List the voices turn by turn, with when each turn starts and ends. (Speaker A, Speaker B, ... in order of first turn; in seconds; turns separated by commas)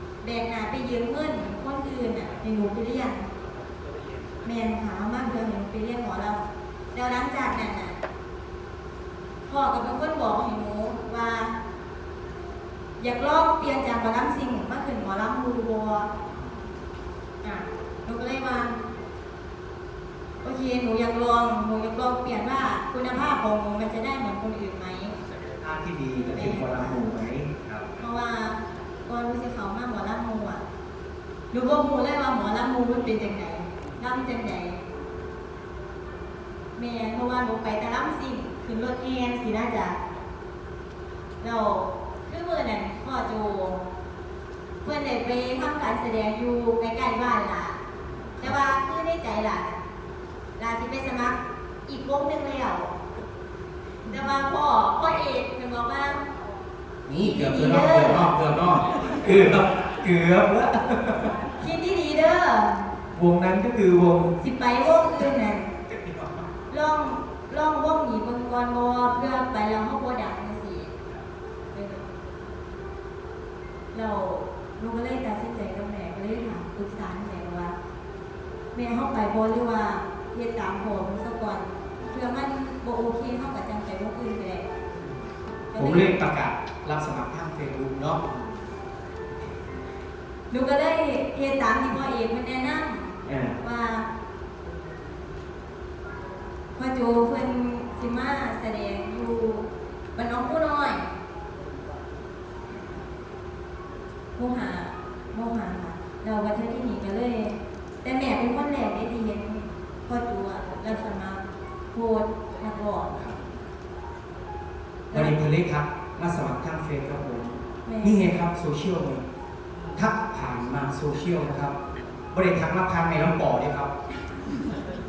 Speaker A: 0.2-3.3, Speaker A: 4.4-6.4, Speaker A: 6.9-8.0, Speaker A: 9.5-11.6, Speaker A: 13.0-16.1, Speaker A: 17.4-18.8, Speaker A: 20.4-25.1, Speaker B: 25.6-27.8, Speaker A: 26.3-27.0, Speaker A: 28.0-30.6, Speaker A: 31.5-34.8, Speaker A: 36.8-40.0, Speaker A: 41.4-43.8, Speaker A: 44.8-47.8, Speaker A: 48.4-49.8, Speaker A: 50.6-53.0, Speaker A: 54.1-56.2, Speaker B: 57.1-61.3, Speaker A: 57.1-58.2, Speaker A: 61.6-62.8, Speaker B: 63.1-64.3, Speaker A: 64.4-65.7, Speaker B: 65.9-66.5, Speaker A: 66.7-70.9, Speaker A: 71.7-72.0, Speaker A: 73.9-77.7, Speaker A: 78.7-84.7, Speaker A: 85.7-86.1, Speaker B: 85.8-88.2, Speaker A: 90.5-94.1, Speaker B: 93.2-93.6, Speaker A: 96.7-101.1, Speaker A: 104.4-113.1, Speaker A: 115.1-115.3, Speaker B: 115.1-119.2, Speaker A: 117.8-118.3, Speaker B: 119.9-121.7, Speaker B: 122.3-123.9